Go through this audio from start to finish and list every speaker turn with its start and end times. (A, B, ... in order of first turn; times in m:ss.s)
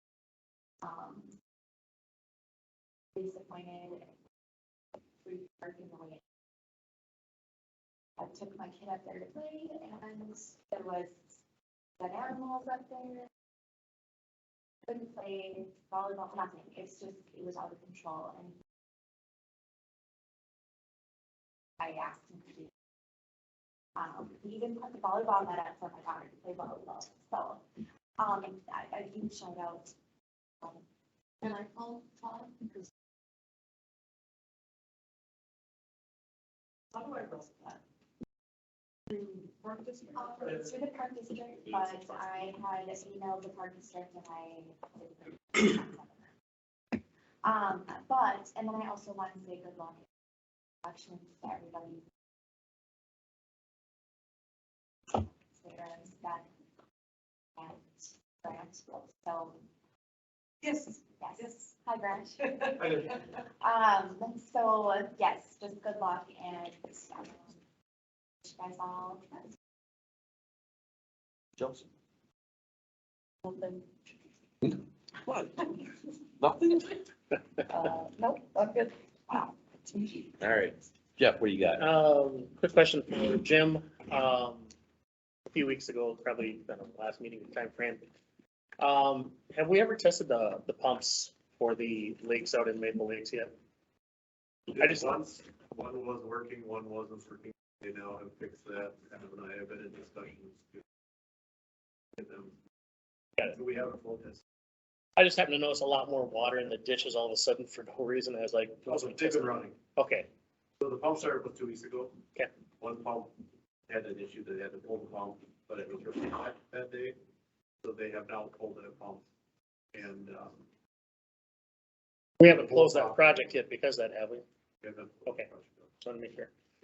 0:00.8-0:01.3 A
0:03.1-0:04.1 A
0:05.2-0:06.2 A
0:08.2-0:11.4 A
0:12.0-0:13.3 A
0:14.8-0:18.5 A
0:21.8-0:22.7 A
0:24.0-0:27.6 A
0:28.2-0:30.0 A
0:31.4-0:32.8 A
0:36.9-0:37.5 B
0:37.5-0:37.8 A
0:39.1-0:40.5 B
0:40.1-0:46.3 A
0:46.9-0:50.0 A
0:50.8-0:52.0 A
0:55.1-0:56.5 A
0:57.6-0:59.6 A
1:01.1-1:07.6 A
1:08.4-1:09.4 A
1:11.6-1:11.9 C
1:13.5-1:13.8 A
1:14.6-1:15.6 C
1:16.4-1:16.9 C
1:17.8-1:19.5 A
1:17.8-1:18.9 B
1:20.4-1:21.8 C
1:21.8-1:24.7 D
1:25.5-1:28.0 D
1:28.8-1:33.5 D
1:34.7-1:40.8 E
1:34.8-1:35.2 D
1:42.2-1:42.6 E
1:43.4-1:44.4 E
1:45.2-1:50.3 D
1:48.8-1:49.8 E
1:50.8-1:52.2 E
1:52.8-1:57.2 E
1:57.8-1:59.3 E
1:59.9-2:00.6 E
2:02.4-2:04.4 D
2:02.4-2:03.2 E
2:04.8-2:05.9 E
2:06.0-2:06.5 D